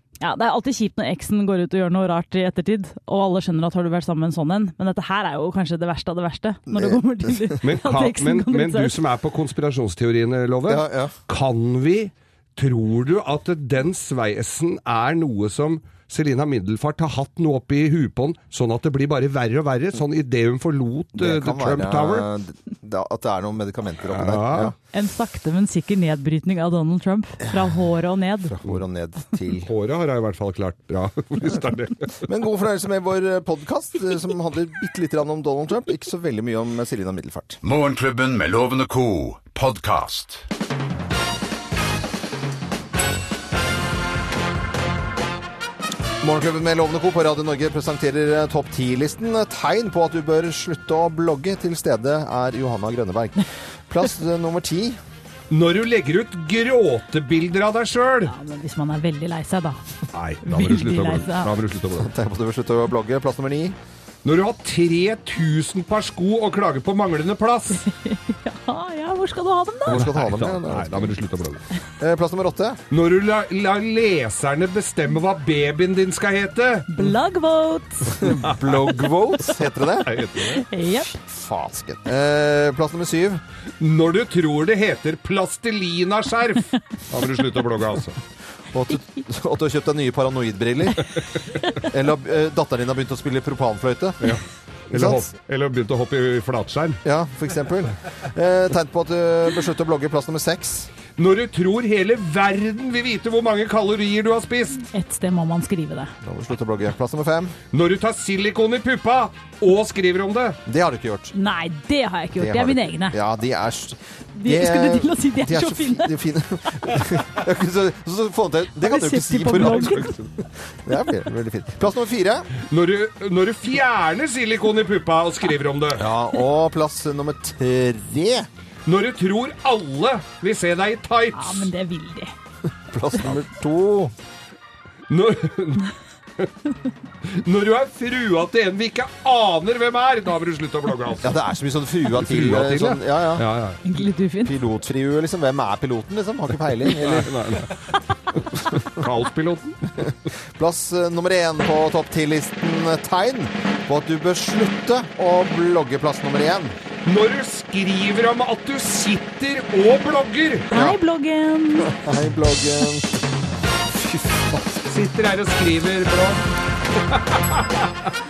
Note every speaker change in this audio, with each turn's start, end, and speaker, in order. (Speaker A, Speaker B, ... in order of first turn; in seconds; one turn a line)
Speaker A: 0.2-9.0
Speaker B: 6.7-7.6
Speaker C: 7.6-22.2
Speaker B: 10.7-11.1
Speaker B: 21.2-24.7
Speaker C: 24.1-24.7
Speaker A: 24.9-28.5
Speaker B: 27.4-27.8
Speaker B: 28.4-29.7
Speaker C: 29.6-32.1
Speaker B: 32.2-37.6
Speaker D: 37.6-40.4
Speaker B: 46.2-55.0
Speaker C: 55.5-58.3
Speaker A: 58.2-59.8
Speaker C: 60.1-62.1
Speaker A: 60.4-61.5
Speaker B: 62.0-63.8
Speaker C: 64.2-67.8
Speaker A: 67.7-70.1
Speaker B: 69.8-71.1
Speaker C: 69.9-71.6
Speaker B: 72.0-72.8
Speaker C: 72.9-77.1
Speaker A: 76.9-78.2
Speaker C: 78.2-79.1
Speaker B: 78.2-80.2
Speaker C: 80.0-80.6
Speaker A: 80.7-81.1
Speaker B: 80.9-83.4
Speaker C: 83.8-88.2
Speaker B: 88.7-91.1
Speaker B: 91.8-94.4
Speaker C: 94.2-97.0
Speaker B: 94.9-95.3
Speaker B: 97.0-100.9
Speaker C: 101.2-104.9
Speaker A: 104.9-106.1
Speaker B: 106.2-107.5
Speaker C: 107.7-110.6
Speaker B: 110.7-111.3
Speaker A: 111.3-113.2
Speaker B: 112.4-122.5
Speaker A: 114.4-116.1
Speaker A: 118.8-120.1
Speaker C: 119.6-119.9
Speaker C: 122.7-126.0
Speaker B: 125.9-128.5
Speaker C: 128.8-131.7
Speaker A: 131.3-132.3
Speaker B: 132.9-134.1
Speaker C: 135.1-136.5
Speaker C: 137.2-141.4
Speaker B: 141.2-143.4
Speaker C: 142.2-143.8
Speaker A: 143.8-144.6
Speaker B: 144.4-147.6
Speaker C: 146.8-149.8
Speaker B: 150.0-156.8
Speaker C: 157.0-160.7
Speaker B: 160.7-161.0
Speaker A: 160.7-162.0
Speaker B: 161.8-163.1
Speaker C: 164.1-166.4
Speaker C: 167.1-167.6